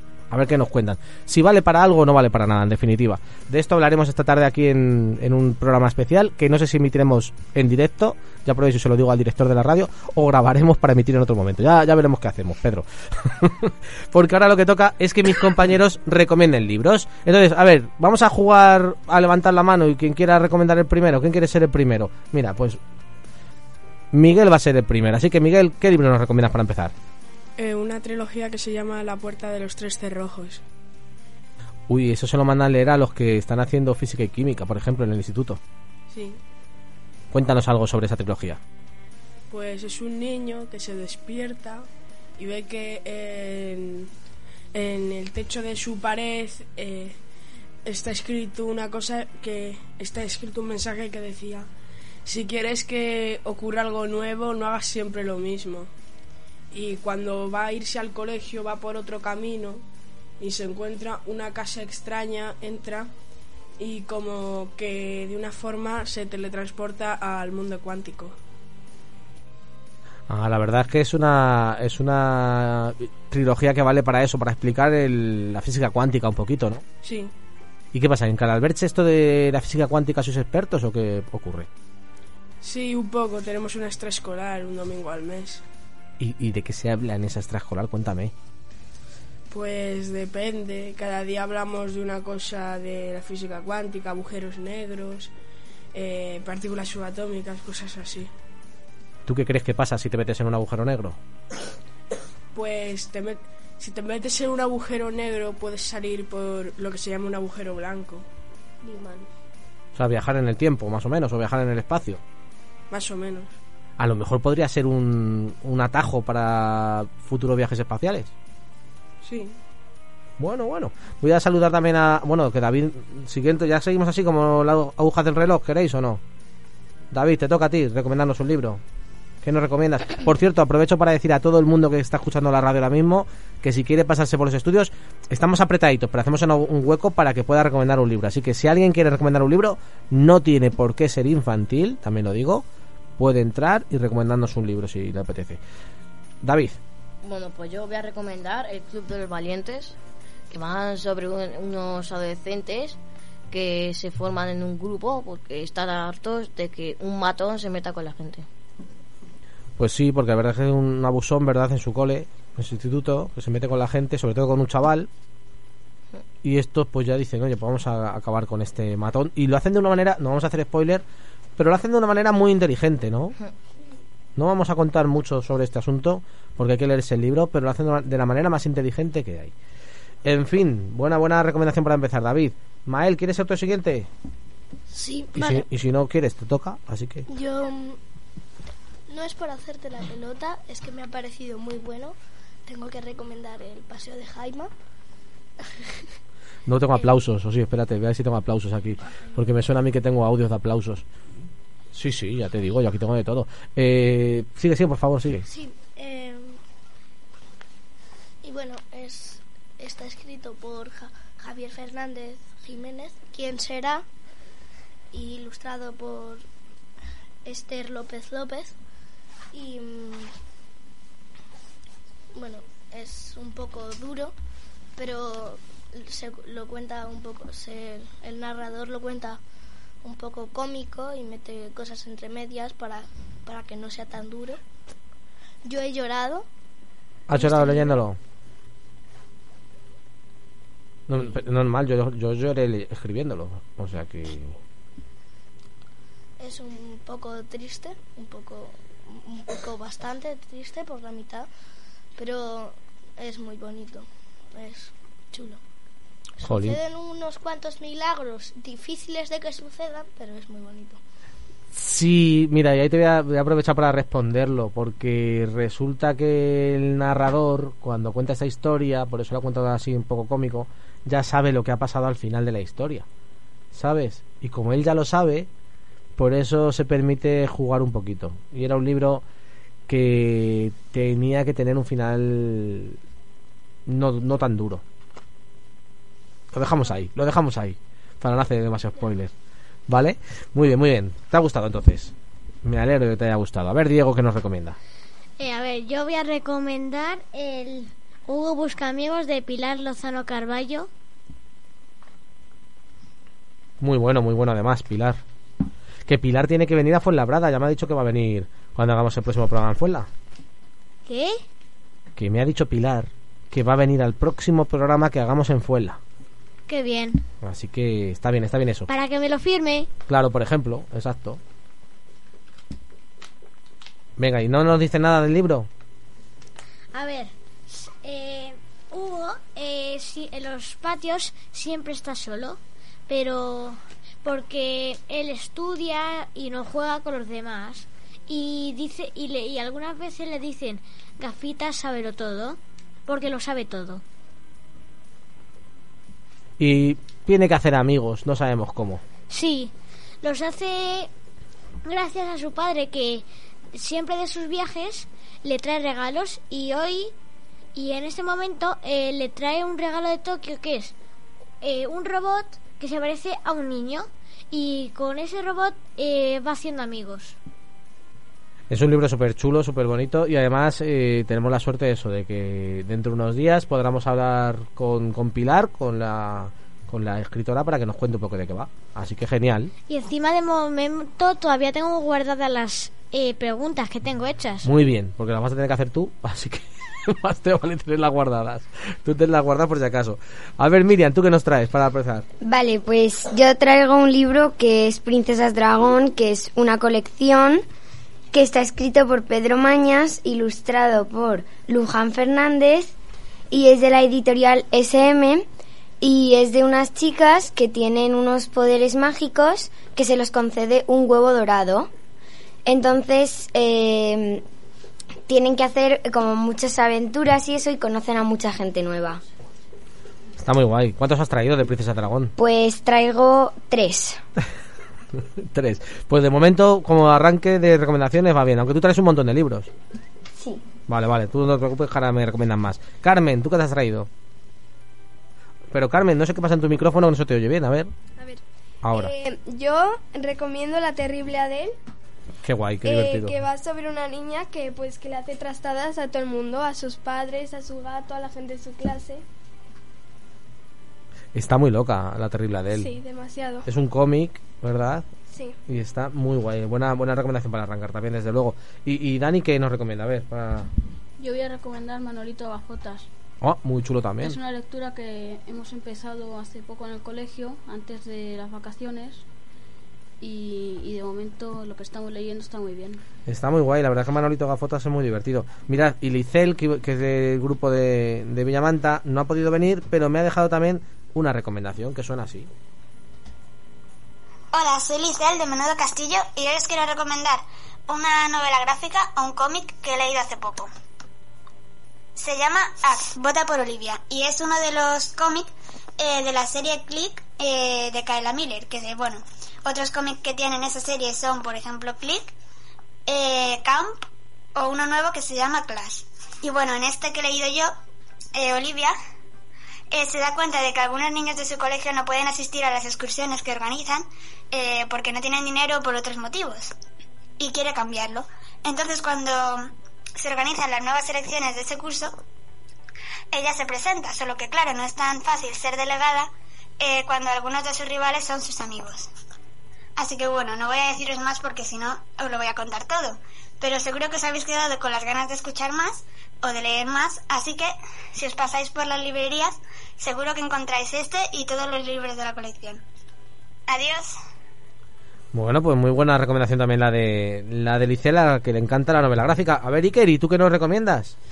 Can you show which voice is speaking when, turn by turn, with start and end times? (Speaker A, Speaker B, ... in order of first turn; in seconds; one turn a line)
Speaker A: 0.3-22.8
Speaker A: 24.1-26.9
Speaker B: 27.6-30.6
Speaker A: 31.9-35.6
Speaker B: 36.1-36.4
Speaker A: 37.3-38.6
Speaker B: 39.5-41.9
Speaker B: 42.4-44.1
Speaker B: 44.7-47.2
Speaker B: 47.9-51.7
Speaker B: 52.2-55.9
Speaker B: 56.7-59.8
Speaker B: 60.4-63.1
Speaker B: 63.8-68.4
Speaker A: 70.3-76.8
Speaker B: 77.0-77.3
Speaker A: 77.9-81.7
Speaker B: 82.6-85.6
Speaker A: 86.2-88.3
Speaker B: 89.5-95.3
Speaker B: 95.9-98.3
Speaker A: 99.3-101.2
Speaker B: 102.5-108.2
Speaker A: 110.0-112.2
Speaker B: 112.9-113.5
Speaker A: 114.0-118.3
Speaker B: 119.2-119.5
Speaker A: 120.4-126.2
Speaker A: 127.1-128.8
Speaker A: 129.4-142.7
Speaker A: 143.2-145.6
Speaker A: 146.4-146.8
Speaker C: 147.2-150.0
Speaker C: 150.5-153.0
Speaker C: 153.5-158.5
Speaker A: 159.8-165.1
Speaker A: 166.4-171.0
Speaker A: 171.6-173.3
Speaker A: 174.4-179.5
Speaker A: 180.2-184.1
Speaker D: 184.9-185.7
Speaker A: 185.3-187.3
Speaker D: 187.3-188.0
Speaker D: 189.1-192.2
Speaker D: 192.7-194.7
Speaker D: 195.7-196.0
Speaker A: 196.7-201.1
Speaker A: 201.9-205.5
Speaker D: 205.5-206.6
Speaker D: 208.4-214.1
Speaker D: 215.1-216.4
Speaker D: 217.4-218.8
Speaker D: 219.5-220.3
Speaker D: 222.3-224.3
Speaker D: 225.0-229.4
Speaker D: 230.0-234.6
Speaker D: 235.7-236.5
Speaker A: 237.3-238.2
Speaker D: 237.3-238.0
Speaker A: 241.1-244.6
Speaker D: 246.4-251.5
Speaker D: 252.2-255.6
Speaker D: 256.4-261.0
Speaker A: 256.4-256.8
Speaker A: 261.7-273.1
Speaker A: 273.7-275.5
Speaker A: 276.2-279.2
Speaker A: 279.9-283.0
Speaker A: 283.9-284.8
Speaker A: 286.5-289.3
Speaker A: 289.9-294.8
Speaker E: 295.4-300.9
Speaker A: 303.8-305.2
Speaker A: 306.1-310.1
Speaker E: 311.1-311.4
Speaker A: 312.2-316.0
Speaker E: 316.7-317.2
Speaker A: 317.4-318.9
Speaker E: 318.9-319.9
Speaker A: 320.1-321.4
Speaker A: 324.2-325.7
Speaker E: 326.9-344.0
Speaker A: 346.6-349.0
Speaker E: 349.3-351.1
Speaker E: 351.8-357.1
Speaker E: 357.8-360.9
Speaker E: 361.6-367.4
Speaker A: 368.7-379.7
Speaker E: 379.9-384.7
Speaker A: 384.6-392.3
Speaker F: 392.4-397.6
Speaker F: 398.3-402.9
Speaker F: 403.5-405.5
Speaker F: 406.0-411.9
Speaker F: 412.7-414.4
Speaker F: 415.3-419.2
Speaker A: 420.4-422.3
Speaker F: 422.4-424.2
Speaker A: 425.2-429.7
Speaker F: 430.4-430.6
Speaker A: 430.9-434.1
Speaker A: 435.7-437.9
Speaker A: 438.8-439.1
Speaker G: 438.9-441.8
Speaker A: 442.4-443.4
Speaker G: 442.9-449.2
Speaker A: 451.3-452.9
Speaker G: 452.8-453.7
Speaker A: 453.7-455.1
Speaker G: 455.3-455.6
Speaker A: 455.7-460.7
Speaker H: 461.2-463.1
Speaker A: 463.4-464.4
Speaker H: 464.2-469.2
Speaker H: 470.2-473.0
Speaker A: 473.3-482.5
Speaker I: 484.5-490.7
Speaker I: 492.2-502.3
Speaker I: 503.1-504.0
Speaker I: 504.6-507.7
Speaker I: 508.4-508.9
Speaker I: 509.9-516.7
Speaker I: 517.4-522.1
Speaker I: 523.3-526.3
Speaker I: 526.8-529.1
Speaker I: 530.0-542.8
Speaker I: 543.7-544.1
Speaker A: 545.3-551.1